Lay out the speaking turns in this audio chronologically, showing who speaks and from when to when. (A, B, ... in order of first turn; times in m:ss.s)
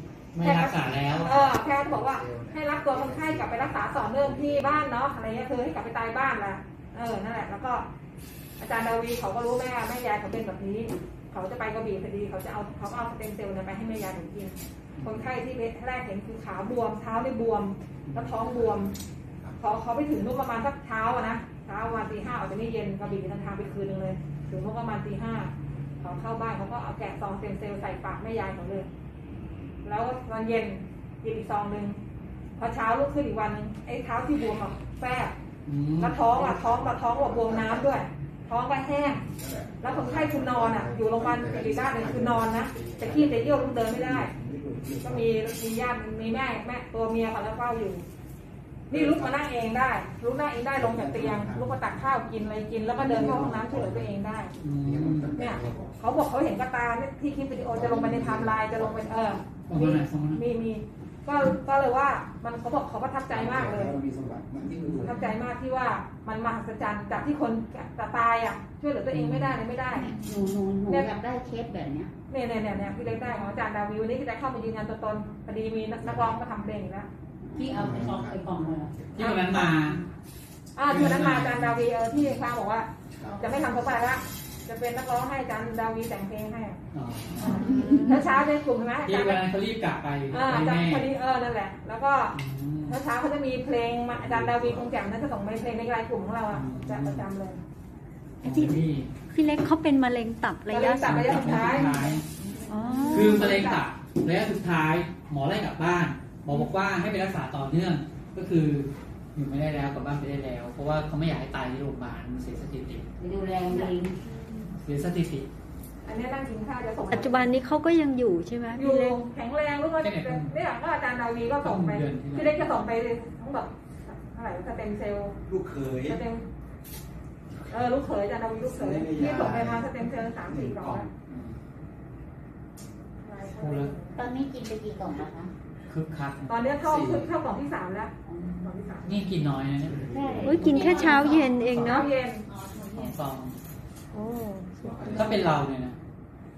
0:00.3-0:01.4 A
0:00.4-0:07.9 B
0:01.3-0:04.9 C
0:08.6-0:18.9 B
0:15.0-0:15.3 A
0:18.1-0:18.4 A
0:18.5-0:18.8 C
0:19.6-0:28.9 B
0:29.8-0:32.0 B
0:32.6-0:35.4 B
0:35.7-0:36.2 A
0:36.0-0:39.3 B
0:36.2-0:38.0 C
0:39.3-0:45.3 C
0:39.8-0:44.3 B
0:45.0-0:48.0 B
0:48.9-0:54.6 B
0:48.9-0:49.4 C
0:50.8-0:52.0 C
0:52.9-0:56.0 C
0:54.6-0:55.4 A
0:55.4-1:04.0 B
0:57.7-0:59.4 C
0:59.7-1:00.4 A
1:03.3-1:05.2 C
1:05.0-1:10.2 B
1:09.1-1:09.6 A
1:10.0-1:10.4 D
1:10.2-1:12.1 E
1:10.9-1:11.1 B
1:12.3-1:17.1 B
1:16.0-1:16.4 C
1:17.4-1:18.9 E
1:17.7-1:19.4 C
1:19.1-1:20.0 A
1:19.2-1:19.8 B
1:20.8-1:26.8 B
1:20.9-1:21.9 A
1:23.1-1:23.4 C
1:26.9-1:27.9 A
1:27.4-1:29.4 B
1:27.4-1:28.0 E
1:27.7-1:28.2 D
1:29.0-1:31.1 A
1:30.3-1:37.6 B
1:32.3-1:33.0 A
1:34.1-1:35.0 C
1:36.5-1:37.3 A
1:38.4-1:39.2 A
1:38.4-1:38.8 D
1:39.3-1:41.3 D
1:40.7-1:42.1 B
1:41.0-1:42.3 A
1:42.7-1:43.5 D
1:43.0-1:43.8 B
1:43.1-1:53.1 A
1:53.2-1:54.2 E
1:53.7-1:54.0 D
1:54.7-1:55.5 A
1:56.0-1:57.5 B
1:57.1-1:59.2 D
1:58.8-2:05.4 B
2:00.0-2:00.6 A
2:01.6-2:02.9 A
2:05.4-2:06.2 C
2:05.9-2:06.4 B
2:07.7-2:11.1 B
2:08.7-2:11.1 C
2:11.3-2:11.6 A
2:13.2-2:14.2 B
2:13.6-2:13.9 A
2:14.2-2:15.5 E
2:15.9-2:16.6 A
2:16.5-2:19.3 B
2:16.8-2:17.3 C
2:18.3-2:18.7 E
2:19.0-2:22.1 A
2:19.9-2:20.8 C
2:20.1-2:21.6 E
2:20.2-2:22.1 D
2:21.7-2:22.5 B
2:22.5-2:23.1 E
2:22.9-2:23.6 A
2:24.1-2:25.3 D
2:24.8-2:25.4 C
2:25.0-2:26.0 A